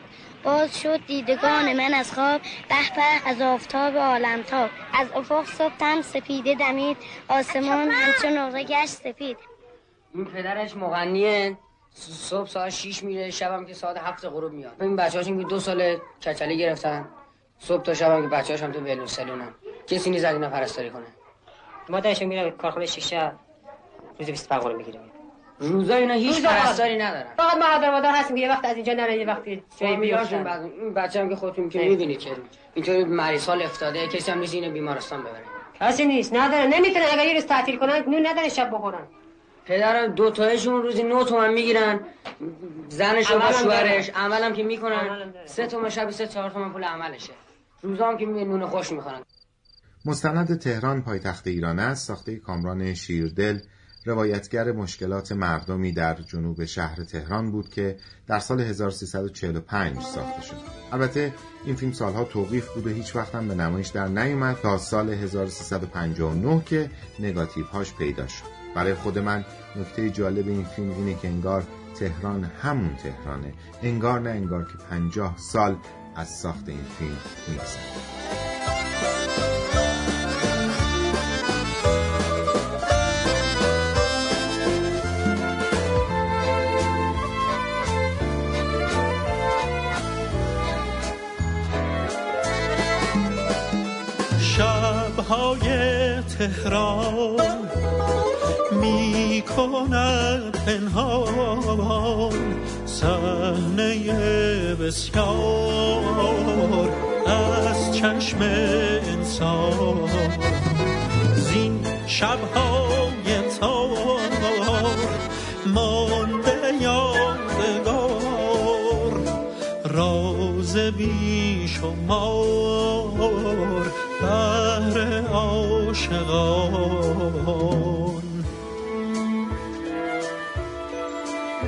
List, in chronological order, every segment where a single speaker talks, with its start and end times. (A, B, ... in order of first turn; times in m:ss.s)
0:00.4-0:09.4 A
0:10.1-0:17.1 B
0:17.6-0:21.1 B
0:21.9-0:23.4 C
0:24.2-0:25.1 C
0:25.6-0:27.4 B
0:26.2-0:26.9 C
0:27.4-0:30.5 C
0:29.7-0:35.6 B
0:31.8-0:32.0 C
0:35.8-0:39.1 C
0:39.7-0:42.0 B
0:42.7-0:49.2 B
0:43.2-0:44.0 C
0:44.9-0:45.5 C
0:50.0-1:18.0 D
1:34.4-1:37.7 E
1:38.7-1:50.8 E
1:51.4-2:08.5 E